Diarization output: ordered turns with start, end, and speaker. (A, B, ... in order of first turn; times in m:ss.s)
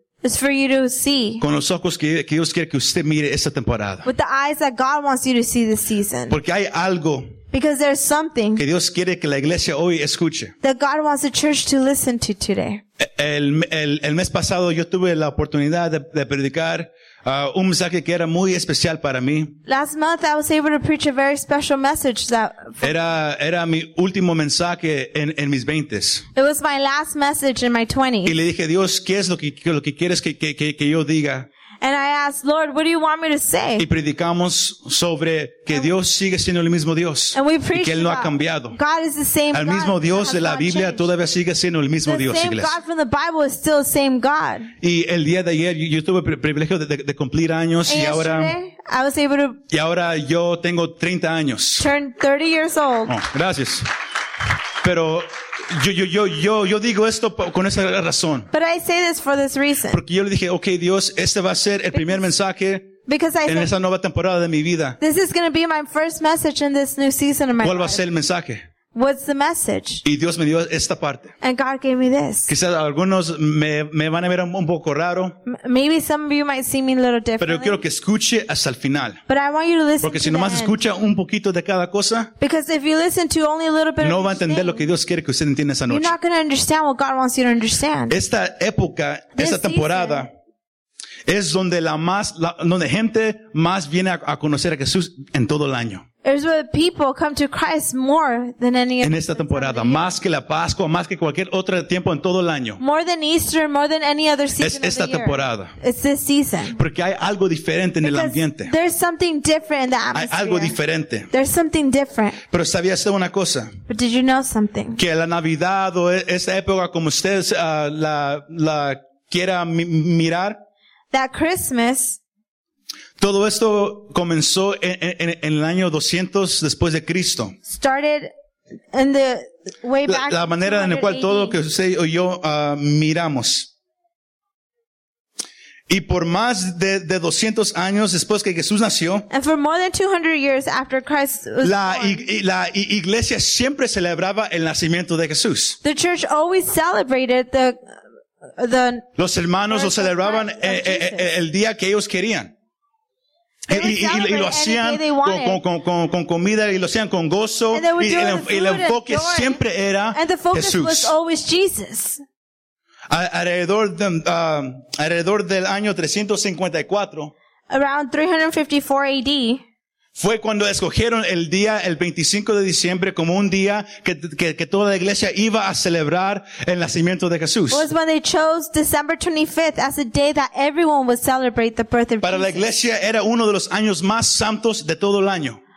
0:00.2-0:01.4 A
0:01.4-0:04.1 B
0:04.0-0:06.4 A
0:06.3-0:07.3 B
0:07.5-0:08.6 A
0:08.6-0:10.5 B
0:10.6-0:12.8 A
0:13.0-0:19.6 B
0:19.7-0:22.9 A
0:22.8-0:26.3 B
0:26.4-0:28.3 A
0:28.2-0:31.5 B
0:31.8-0:33.9 A
0:33.8-0:38.8 B
0:37.3-0:41.1 A
0:39.5-0:42.8 B
0:42.1-0:44.7 A
0:44.8-0:48.6 B
0:47.9-0:49.6 A
0:49.7-0:51.9 B
0:51.8-0:53.2 A
0:53.1-0:53.9 B
0:54.8-0:58.5 B
0:58.5-1:00.0 A
0:59.9-1:05.0 B
1:01.9-1:02.2 A
1:03.1-1:03.7 A
1:05.0-1:08.0 A
1:07.6-1:08.6 B
1:08.9-1:10.0 A
1:10.0-1:11.3 B
1:11.4-1:12.5 A
1:12.5-1:15.4 B
1:15.4-1:17.8 A
1:17.4-1:19.2 B
1:19.3-1:20.8 A
1:20.0-1:22.3 B
1:22.4-1:24.8 A
1:24.0-1:26.1 B
1:25.9-1:28.2 A
1:28.1-1:30.3 B
1:29.4-1:30.2 A
1:31.3-1:36.0 B
1:36.2-1:40.1 A
1:39.0-1:42.8 B
1:42.8-1:46.8 A
1:44.6-1:45.7 B
1:46.8-1:48.7 B
1:48.0-1:50.8 A
1:50.2-1:51.3 B
1:51.3-1:52.4 A
1:52.5-1:53.8 B
1:53.9-1:55.0 A
1:55.0-2:00.6 B
2:01.1-2:02.2 A
2:03.2-2:07.6 B
2:07.7-2:08.3 A
2:08.9-2:11.6 A
2:10.1-2:13.7 B
2:15.9-2:19.3 B
2:19.3-2:22.3 A
2:21.6-2:25.8 B
2:25.8-2:28.0 A
2:28.5-2:29.1 A
2:29.2-2:32.5 B
2:29.7-2:31.3 A
2:33.7-2:41.1 B
2:33.7-2:35.6 A
2:37.7-2:39.6 A
2:40.1-2:42.2 A
2:43.1-2:47.3 B
2:47.7-2:49.6 A
2:50.2-2:57.8 B
2:57.7-3:02.6 A
3:02.2-3:05.6 B